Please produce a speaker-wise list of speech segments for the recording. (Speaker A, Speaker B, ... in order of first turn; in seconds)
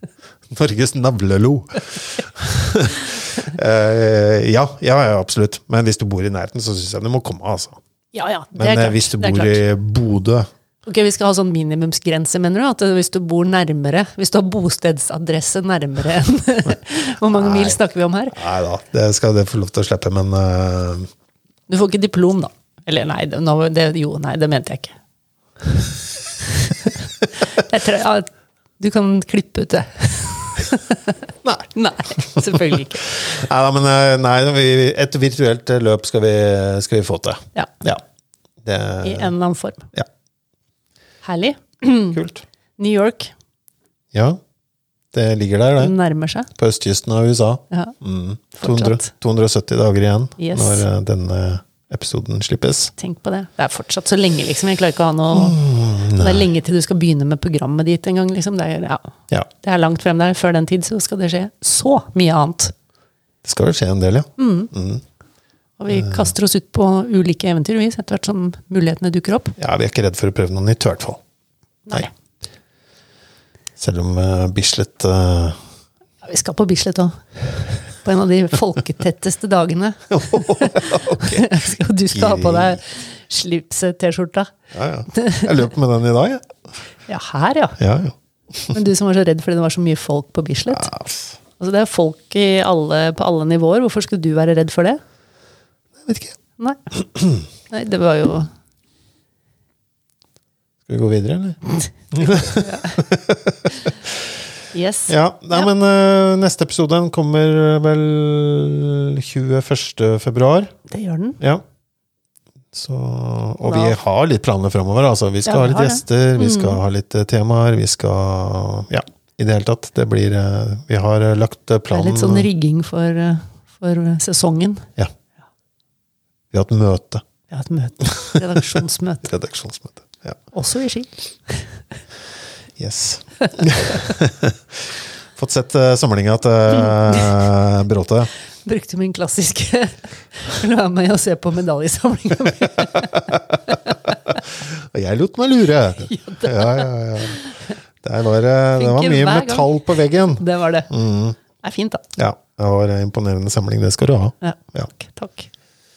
Speaker A: 0.5-7.8, 8.6-10.5, 17.4-17.8, 18.3-21.1, 32.3-38.0, 38.6-39.3, 42.1-42.4, 44.1-44.4, 45.1-45.9, 46.5-52.9, 55.3-56.5, 63.5-65.0, 65.9-66.3, 69.6-71.2, 73.8-75.6, 80.1-82.8, 84.7-86.5, 87.8-88.8, 90.7-91.4, 96.0-96.4, 96.9-97.4, 100.9-104.3, 105.1-110.7, 112.7-122.5, 126.5-127.2, 128.0-128.6, 129.2-130.4, 132.8-138.3, 142.8-147.5, 148.0-151.4, 152.2-154.9
Speaker B: 8.1-9.6, 10.8-18.4, 21.7-25.0, 26.4-31.2, 31.7-33.1, 39.0-39.9, 41.2-42.2, 42.8-43.3, 45.8-46.5, 48.6-49.1, 50.4-50.9, 53.0-55.6, 56.1-62.7, 64.4-64.7, 65.8-69.5, 76.2-77.2, 78.0-84.5, 85.1-85.6, 87.1-87.8, 88.7-90.9, 91.6-95.0, 97.7-98.5, 102.6-103.0, 104.7-105.7, 110.9-111.4, 113.6-114.0, 115.5-116.8, 121.9-124.9, 127.5-129.3, 130.5-131.7, 138.7-144.2, 146.1-147.5, 148.8-149.7, 150.4-150.9, 151.6-152.0, 154.4-155.5